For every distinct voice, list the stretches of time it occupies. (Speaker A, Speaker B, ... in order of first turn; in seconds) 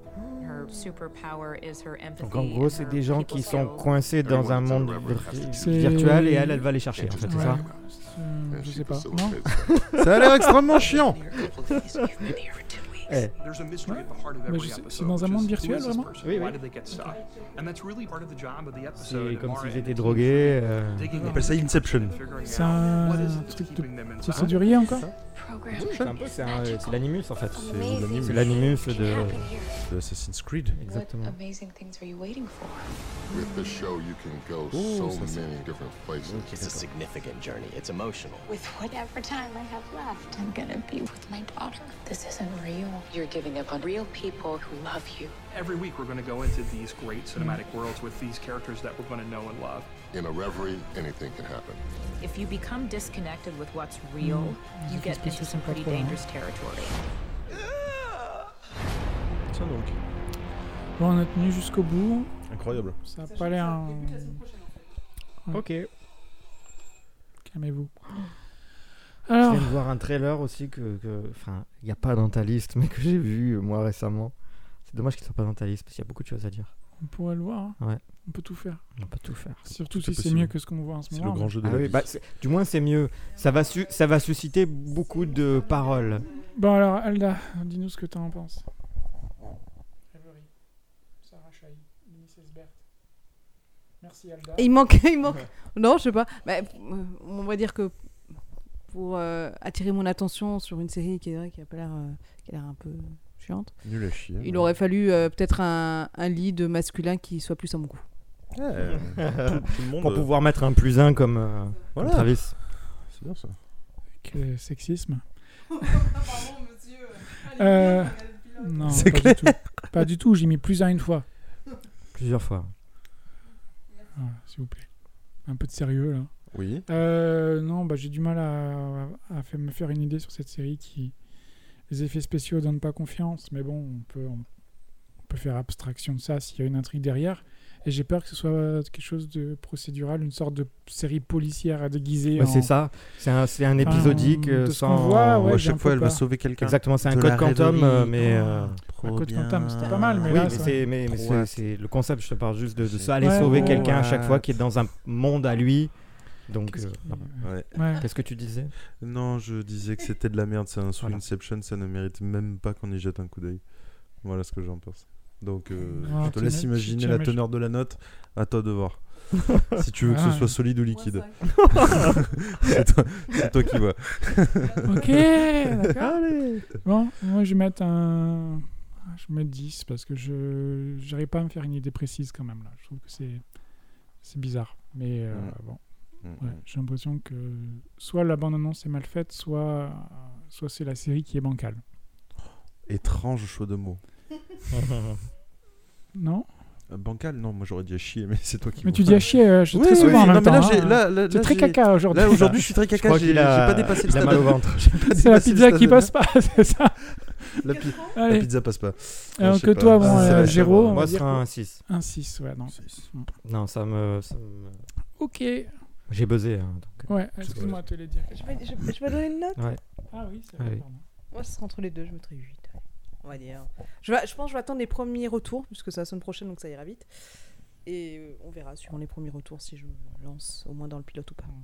Speaker A: 0.2-0.9, 2.2-7.6, 10.0-10.6, 13.1-13.3, 16.2-16.6, 19.0-21.1, 25.7-29.5, 30.8-31.4, 65.5-65.9, 69.4-74.3, 74.8-76.7, 79.0-79.6, 81.6-86.2, 108.9-112.6, 122.1-122.7, 142.3-145.6, 146.6-148.8, 150.2-158.7, 171.6-172.1, 176.0-176.7, 194.7-195.2, 200.0-200.4, 202.9-205.5, 210.0-211.8, 213.4-214.8, 216.1-217.7, 220.6-220.8
Speaker B: 0.4-3.9, 52.2-57.0
Speaker C: 4.1-5.8, 8.5-10.0, 33.3-36.5, 50.1-51.8
Speaker D: 5.5-9.4, 13.8-16.2, 21.1-21.5, 22.4-25.1, 47.4-47.6, 54.2-56.2, 61.0-62.4, 63.0-64.4, 67.4-68.1, 69.2-69.8, 77.0-78.8, 79.6-81.5, 86.4-88.6, 90.1-90.5, 91.2-92.8, 94.0-94.7, 114.2-115.2, 115.8-116.3, 117.3-121.2, 124.2-124.9, 125.5-131.1, 131.9-134.4, 135.3-142.7, 143.8-146.2, 148.2-150.8, 153.2-153.9, 156.7-158.1, 165.8-167.4, 170.0-170.6, 174.8-183.4, 184.2-191.8, 196.1-196.5, 198.8-202.8, 205.1-208.5, 209.4-213.3, 215.2-215.7, 217.1-218.4, 220.1-221.0
Speaker E: 10.0-11.3, 21.2-22.2, 24.3-25.1, 27.6-28.8, 29.9-30.8, 34.7-35.5, 36.2-36.8, 59.5-60.0, 62.5-63.0, 79.9-80.5, 81.1-82.1, 103.8-104.7, 108.5-110.3, 111.9-113.6, 118.8-119.8, 126.5-126.8, 143.8-144.2, 145.4-151.6, 152.8-154.6, 157.4-158.1, 159.0-175.3, 185.3-185.6, 186.2-186.6, 192.8-194.0, 196.9-206.1, 207.6-211.0, 212.7-213.0
Speaker F: 11.1-13.3, 24.8-29.7, 30.8-33.6, 38.5-45.3
Speaker G: 13.4-24.8, 45.5-49.9
Speaker H: 16.9-17.2, 22.1-23.5, 94.5-97.9, 98.9-108.0, 218.3-219.6, 221.3-227.1, 227.8-231.5
Speaker I: 36.4-38.5